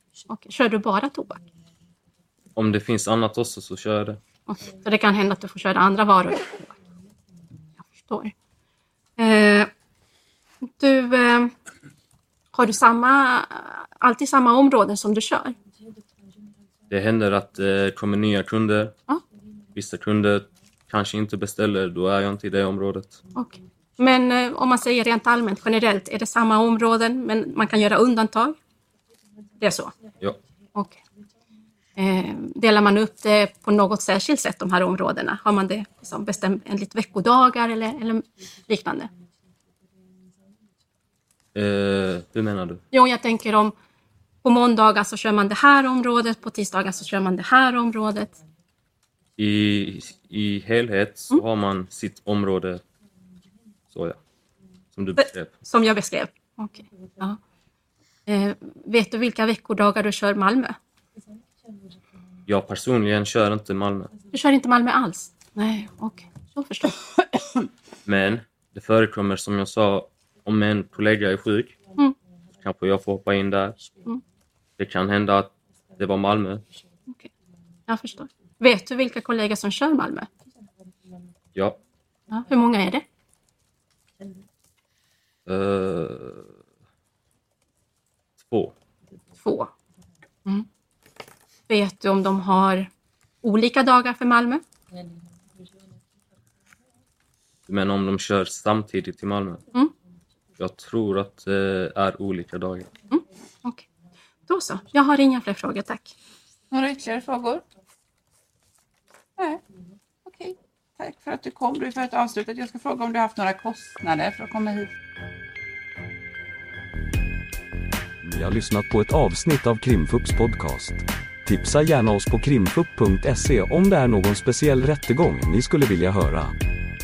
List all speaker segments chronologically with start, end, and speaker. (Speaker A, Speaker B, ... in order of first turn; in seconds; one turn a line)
Speaker A: 0.3-1.4
Speaker B: 2.5-4.2
Speaker A: 4.5-6.7
Speaker A: 7.9-8.3
Speaker A: 9.2-9.7
Speaker A: 10.6-11.5
Speaker A: 12.5-15.5
Speaker B: 16.9-19.0
Speaker B: 19.7-23.2
Speaker A: 23.4-28.6
Speaker A: 29.6-29.9
Speaker A: 32.0-39.1
Speaker B: 41.5-42.8
Speaker A: 42.9-43.7
Speaker A: 44.4-48.3
Speaker B: 49.4-52.8
Speaker B: 53.9-54.2
Speaker B: 54.9-55.5
Speaker A: 55.2-57.4
Speaker A: 58.3-60.8
Speaker B: 62.5-64.1
Speaker A: 64.3-67.4
Speaker B: 68.0-71.7
Speaker B: 72.6-73.8
Speaker B: 74.8-76.6
Speaker A: 77.9-80.3
Speaker A: 82.3-83.0
Speaker B: 85.5-86.5
Speaker B: 88.4-88.7
Speaker A: 89.4-89.7
Speaker A: 91.7-92.9
Speaker A: 93.4-94.6
Speaker B: 97.7-99.6
Speaker B: 100.6-102.9
Speaker A: 103.1-103.8
Speaker A: 104.5-106.1
Speaker C: 106.7-107.6
Speaker C: 109.4-109.6
Speaker C: 110.2-114.9
Speaker D: 118.2-126.5